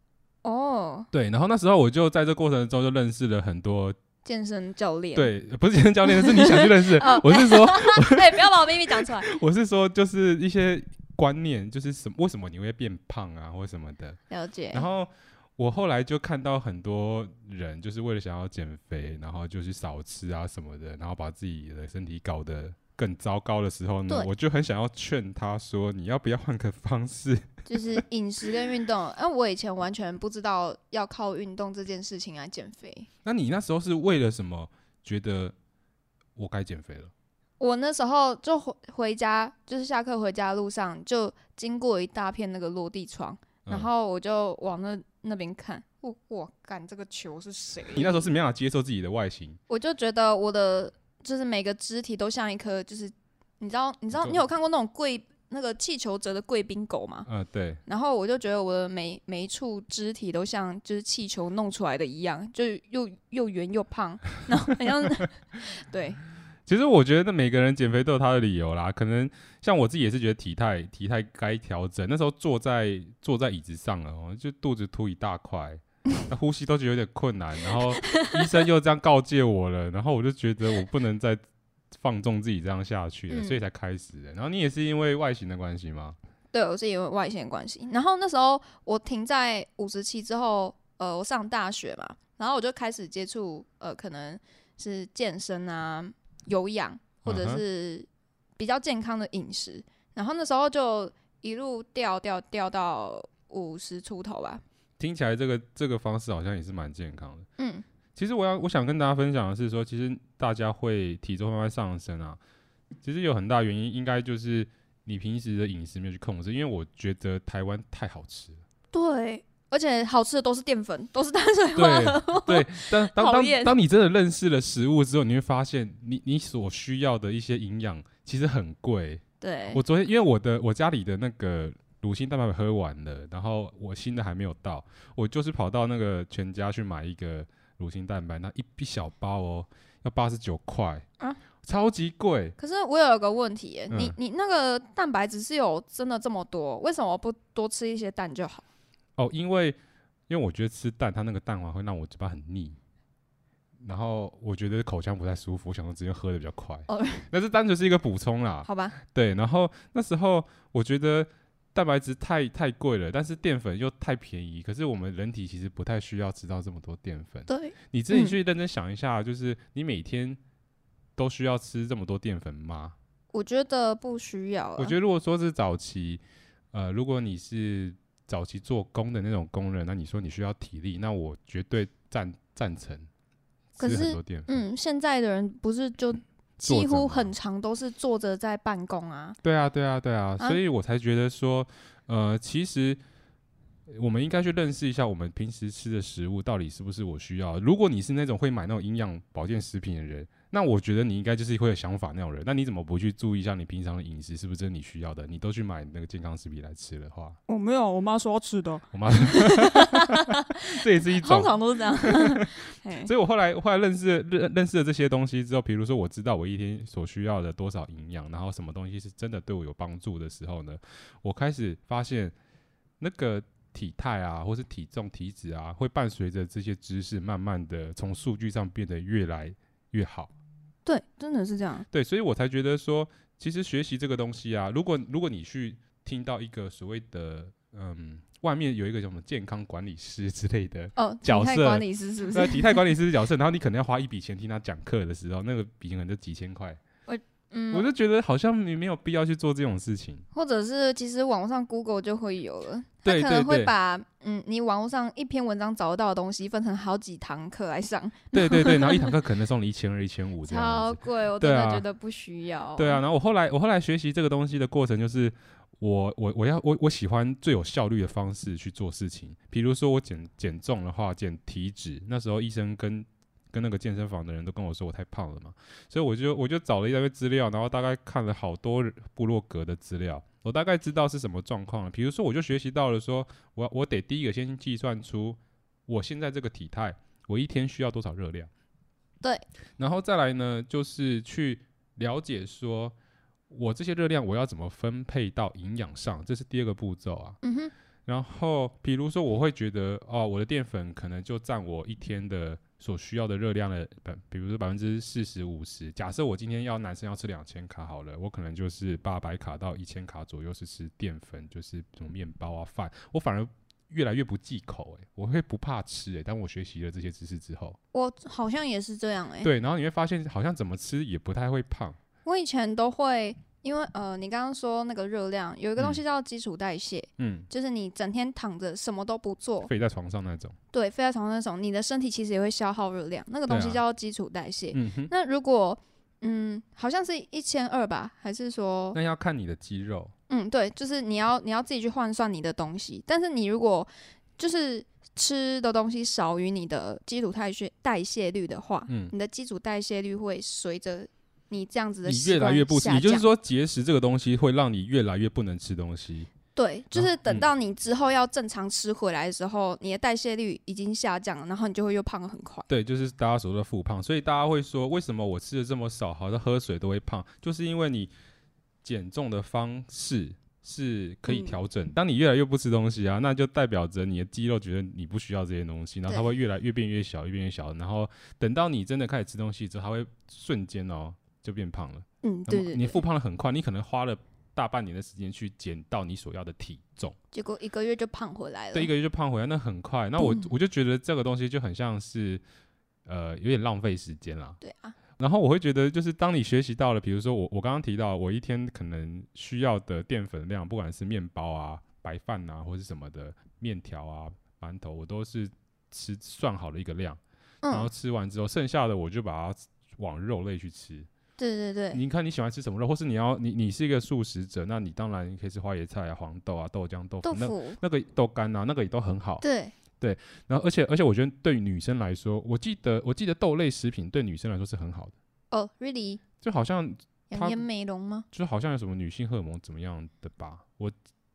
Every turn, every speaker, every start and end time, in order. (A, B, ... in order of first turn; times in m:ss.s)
0:00.4-0:01.1 A
0:01.1-0:04.0 B
0:04.2-0:05.3 A
0:05.1-0:14.2 B
0:06.0-0:09.3 A
0:14.3-0:14.9 A
0:14.7-0:28.0 B
0:27.7-0:33.1 A
0:33.2-0:35.6 B
0:36.4-0:37.1 B
0:37.6-0:48.3 A
0:47.9-0:49.6 B
0:49.7-0:57.3 A
0:54.2-0:54.4 B
0:57.3-0:57.8 B
0:57.9-1:06.2 A
1:06.7-1:26.2 B
1:23.3-1:23.6 A
1:26.5-1:38.1 A
1:37.2-1:37.6 B
1:38.6-1:44.6 A
1:45.0-1:47.5 B
1:47.6-1:47.8 A
1:48.2-1:52.4 B
1:53.0-1:58.6 B
1:58.9-2:03.7 A
2:01.8-2:21.0 B
2:09.4-2:09.8 A
2:21.6-2:22.6 B
2:22.6-2:28.6 A
2:23.9-2:24.2 B
2:29.2-2:29.8 B
2:30.3-2:32.8 B
2:33.8-2:50.4 B
2:36.9-2:37.3 A
2:38.7-2:39.0 A
2:47.5-2:48.4 A
2:51.2-2:53.0 B
2:53.3-2:55.0 A
2:54.8-2:56.2 B
2:56.7-3:03.1 B
3:03.8-3:04.6 B
3:03.8-3:09.4 A
3:06.6-3:07.3 B
3:09.4-3:13.0 B
3:13.9-3:27.4 B
3:27.5-3:33.1 A
3:28.9-3:42.3 B
3:43.0-3:50.3 B
3:50.9-3:51.9 A
3:51.9-4:06.8 B
4:01.0-4:02.8 A
4:07.1-4:07.9 A
4:07.7-4:10.2 B
4:10.3-4:19.1 A
4:13.0-4:13.7 B
4:18.3-4:21.8 B
4:20.4-4:23.0 A
4:22.8-4:48.5 B
4:49.8-4:53.0 B
4:53.5-4:57.4 B
4:57.4-4:57.7 A
4:58.1-5:17.8 B
5:17.9-5:19.5 A
5:19.4-5:22.0 B
5:22.2-5:29.7 A
5:27.2-5:27.5 B
5:29.6-5:30.6 B
5:30.7-5:39.0 A
5:33.5-5:33.8 B
5:34.7-5:35.1 B
5:38.9-5:40.1 B
5:40.3-5:53.3 A
5:48.9-5:49.1 B
5:52.0-5:56.3 B
5:56.6-6:02.7 A
5:56.9-5:57.5 B
6:02.7-6:08.1 B
6:08.8-6:27.2 B
6:11.3-6:11.6 A
6:22.2-6:23.0 A
6:27.3-6:28.9 A
6:28.7-6:32.4 B
6:30.2-6:30.5 A
6:33.1-6:34.6 B
6:34.6-6:35.0 A
6:35.2-6:51.1 B
6:47.6-6:47.9 A
6:51.4-6:52.0 A
6:51.9-6:59.4 B
6:57.2-6:57.8 A
6:59.4-6:59.7 A
7:00.0-7:05.1 B
7:05.5-7:06.2 A
7:06.4-7:07.6 B
7:07.3-7:08.3 A
7:08.3-7:10.9 B